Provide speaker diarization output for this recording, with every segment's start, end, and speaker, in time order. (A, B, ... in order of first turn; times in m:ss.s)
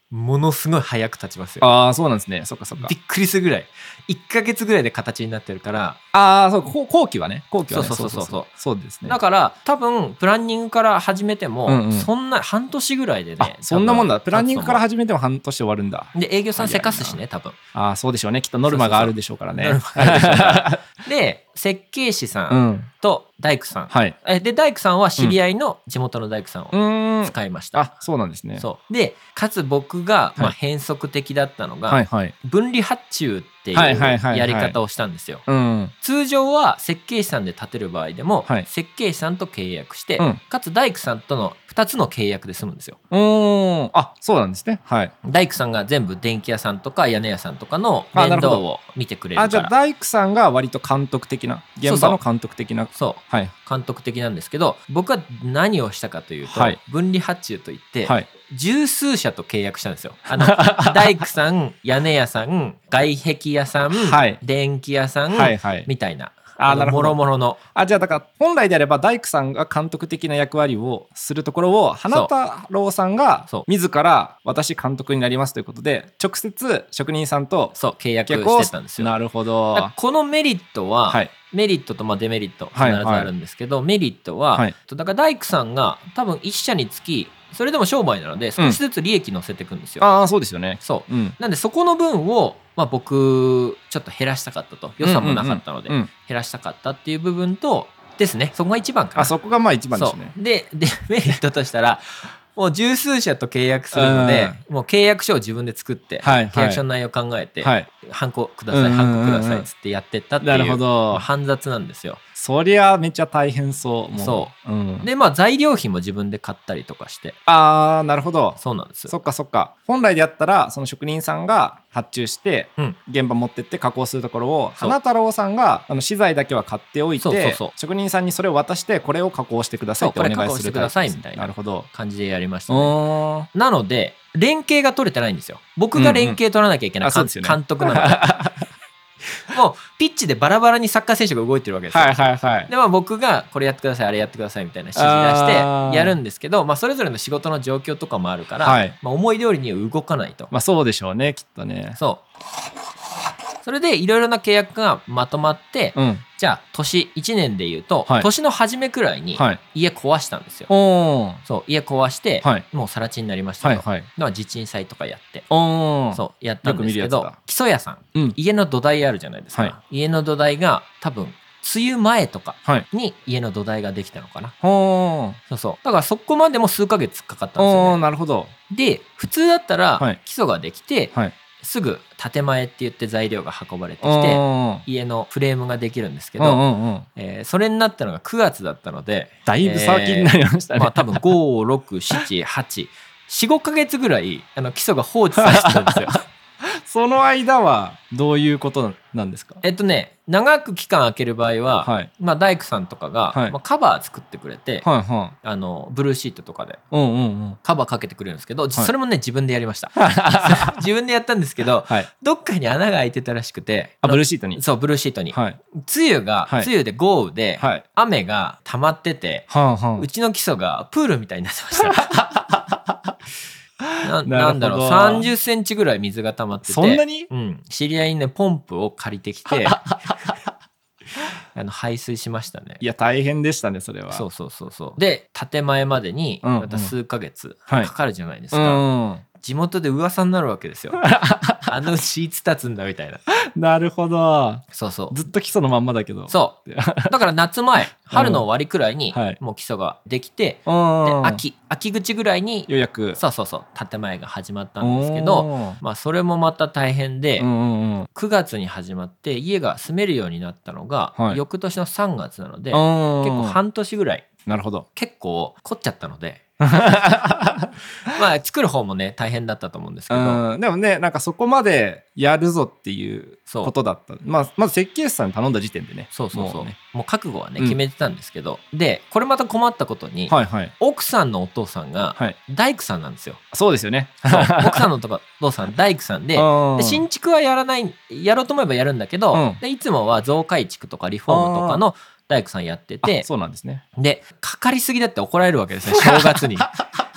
0:00.1-0:01.6 A
0:01.6-0:02.9 B
0:02.8-0:06.0 A
0:06.1-0:09.2 B
0:07.7-0:08.5 A
0:09.0-0:14.8 A
0:11.7-0:12.1 B
0:13.4-0:17.2 B
0:16.1-0:17.6 A
0:17.8-0:20.9 B
0:18.7-0:27.9 A
0:22.5-0:22.9 B
0:23.9-0:24.2 B
0:26.7-0:28.7 B
0:28.6-0:35.4 A
0:31.9-0:32.3 B
0:33.7-0:34.8 B
0:35.5-0:35.9 B
0:36.0-0:43.0 A
0:43.1-0:45.1 B
0:45.2-0:49.7 A
0:48.1-0:48.6 B
0:49.4-0:53.5 B
0:51.8-0:52.2 A
0:52.9-1:07.6 A
0:56.5-0:56.8 B
1:00.4-1:01.1 B
1:03.9-1:04.4 B
1:05.3-1:05.9 B
1:06.6-1:07.2 B
1:07.8-1:19.9 B
1:17.8-1:19.2 A
1:19.7-1:30.0 A
1:22.8-1:23.3 B
1:30.0-1:31.4 B
1:30.8-1:39.3 A
1:35.0-1:36.1 B
1:39.2-1:40.3 B
1:39.9-1:52.2 A
1:43.9-1:44.6 B
1:46.2-1:46.8 B
1:47.6-1:47.9 B
1:48.7-1:49.7 B
1:50.4-1:51.2 B
1:52.4-1:55.1 B
1:54.1-1:57.4 A
1:57.5-2:11.9 B
1:58.6-1:59.1 A
2:07.2-2:07.7 A
2:10.0-2:13.0 A
2:12.7-2:13.5 B
2:13.5-2:18.3 A
2:15.9-2:16.4 B
2:17.0-2:18.7 B
2:19.5-2:30.5 A
2:21.9-2:22.7 B
2:25.0-2:26.2 B
2:28.6-2:29.0 B
2:30.5-2:32.0 B
2:32.0-2:32.2 A
2:33.6-2:40.7 A
2:36.0-2:36.2 B
2:40.7-2:41.4 B
2:41.4-2:45.5 A
2:43.6-2:44.1 B
2:45.5-2:47.3 B
2:46.1-2:54.5 A
2:54.6-2:55.4 B
2:55.5-2:58.0 A
2:57.6-2:58.5 B
2:58.7-3:16.2 A
3:04.0-3:04.8 B
3:06.4-3:07.1 B
3:09.5-3:11.2 B
3:15.4-3:19.6 B
3:19.6-3:24.9 A
3:21.8-3:22.1 B
3:24.8-3:25.4 B
3:25.4-3:26.8 A
3:26.9-3:27.6 B
3:27.6-3:42.2 A
3:30.0-3:30.8 B
3:34.0-3:34.6 B
3:35.3-3:35.6 B
3:37.6-3:37.8 B
3:39.5-3:40.1 B
3:41.9-3:43.1 B
3:43.9-3:45.3 B
3:44.0-3:49.9 A
3:46.7-3:47.3 B
3:49.5-3:50.4 B
3:51.5-3:52.8 A
3:52.8-3:54.2 B
3:54.1-3:58.8 A
3:56.4-3:56.9 B
3:58.5-3:59.2 B
3:59.4-4:01.0 A
4:01.0-4:01.7 B
4:01.7-4:03.2 A
4:03.6-4:07.2 B
4:04.7-4:05.2 A
4:06.3-4:17.5 A
4:07.9-4:08.4 B
4:09.1-4:09.4 B
4:10.7-4:11.4 B
4:12.7-4:13.2 B
4:14.8-4:15.8 B
4:17.4-4:18.1 B
4:18.2-4:24.2 A
4:22.7-4:23.6 B
4:24.5-4:24.9 B
4:25.0-4:26.4 A
4:26.6-4:27.7 B
4:28.1-4:30.4 A
4:30.1-4:36.7 B
4:33.5-4:33.7 A
4:36.1-4:43.4 A
4:40.3-4:40.7 B
4:43.5-4:44.9 B
4:44.3-4:53.3 A
4:46.4-4:47.0 B
4:49.3-4:49.6 B
4:51.3-4:51.8 B
4:53.0-4:53.8 B
4:54.0-4:56.7 A
4:56.0-4:56.4 B